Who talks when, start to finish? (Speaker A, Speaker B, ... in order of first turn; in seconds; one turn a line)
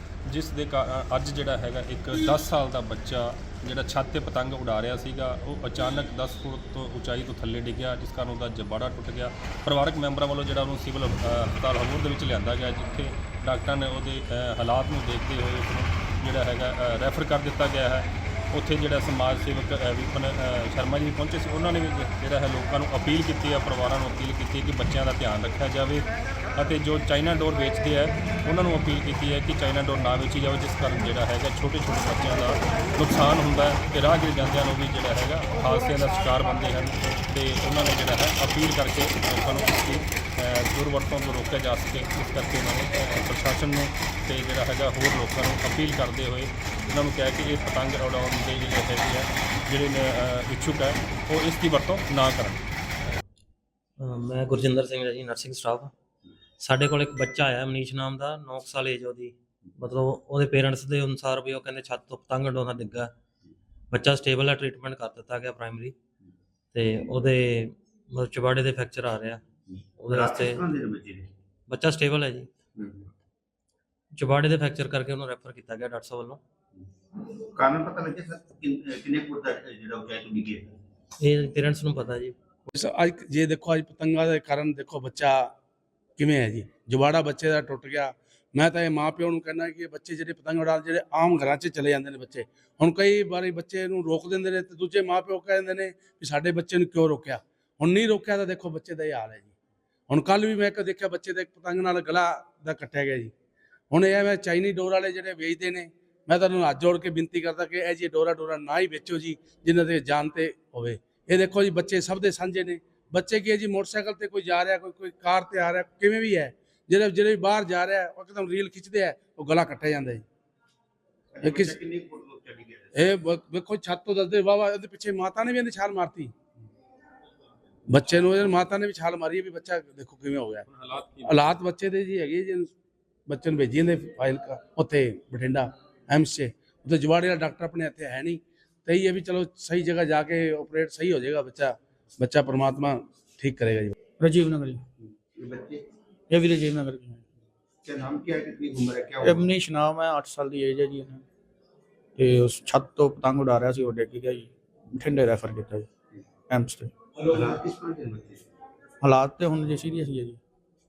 Speaker A: 0.3-52.6
Speaker B: 54.0-55.9
Speaker B: 56.6-63.1
Speaker B: 63.9-66.0
Speaker B: 66.7-69.4
Speaker B: 70.0-70.7
Speaker C: 70.1-71.3
Speaker B: 71.7-72.5
Speaker C: 72.8-73.1
Speaker B: 74.1-76.4
Speaker C: 77.5-80.8
Speaker B: 81.2-82.4
Speaker D: 82.7-85.5
Speaker D: 86.2-99.5
Speaker D: 100.1-103.3
Speaker D: 103.9-120.2
Speaker C: 121.3-123.2
Speaker D: 121.4-121.8
Speaker D: 123.0-126.3
Speaker D: 127.9-130.7
Speaker A: 130.7-131.3
Speaker D: 131.2-132.7
Speaker D: 133.3-143.9
Speaker E: 144.2-144.8
Speaker C: 145.1-145.8
Speaker E: 146.3-147.2
Speaker C: 147.8-149.5
Speaker E: 149.2-151.2
Speaker E: 152.2-155.9
Speaker E: 156.5-156.9
Speaker C: 157.2-158.4
Speaker E: 159.0-160.4